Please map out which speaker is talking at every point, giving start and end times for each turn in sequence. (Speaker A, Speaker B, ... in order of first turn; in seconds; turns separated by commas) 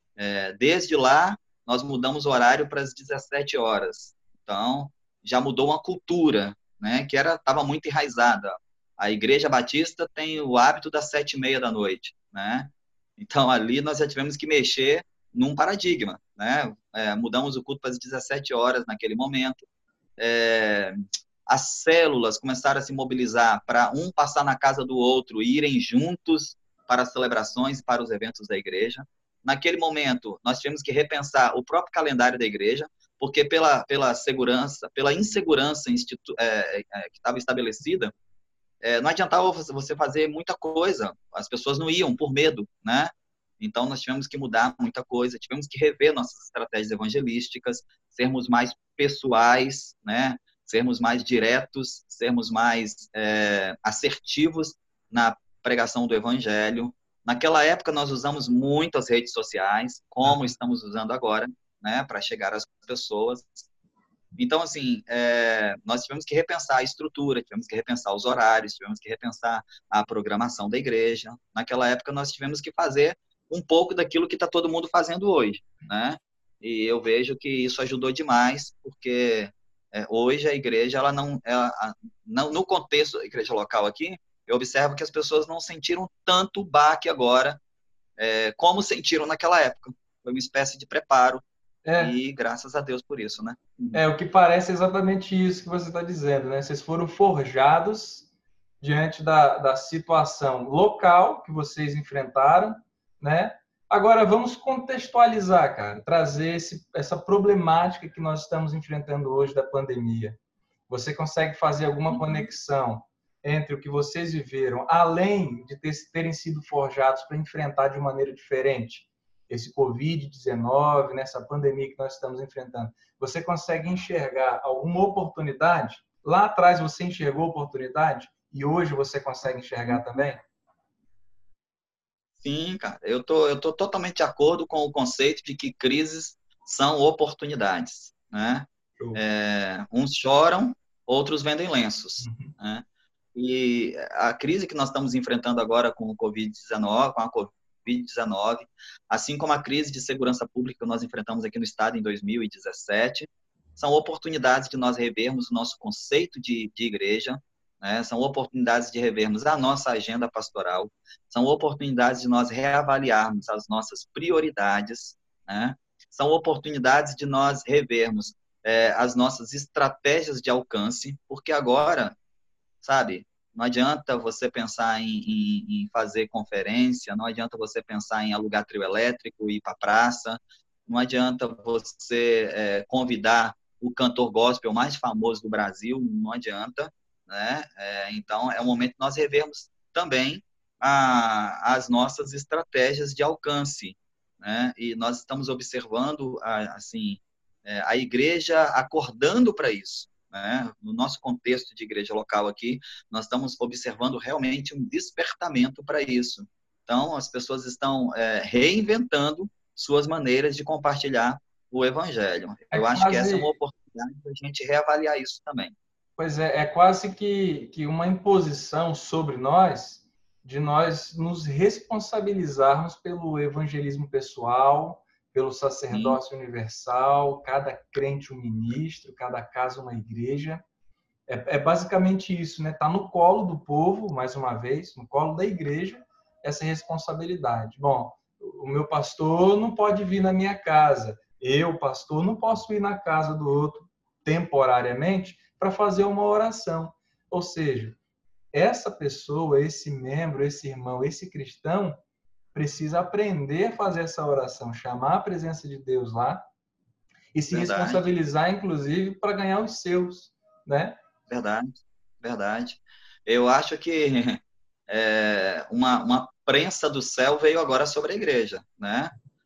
Speaker A: 0.2-19.6, Speaker A: 20.2-21.0, Speaker A: 21.5-38.1, Speaker A: 38.8-63.7, Speaker B: 60.2-60.5, Speaker A: 64.4-87.6, Speaker A: 88.2-91.4, Speaker B: 91.8-92.1, Speaker A: 92.0-94.0, Speaker B: 93.9-98.3, Speaker B: 98.8-110.4, Speaker B: 110.9-130.4, Speaker A: 112.1-112.5, Speaker A: 129.9-130.2, Speaker A: 132.4-172.2, Speaker B: 142.2-142.5, Speaker A: 172.8-215.8, Speaker B: 212.7-213.5, Speaker B: 216.2-230.6, Speaker A: 225.9-226.2, Speaker B: 231.3-248.0, Speaker B: 248.5-252.0, Speaker B: 252.5-256.5, Speaker B: 257.3-261.0, Speaker A: 257.5-258.1, Speaker A: 261.3-269.1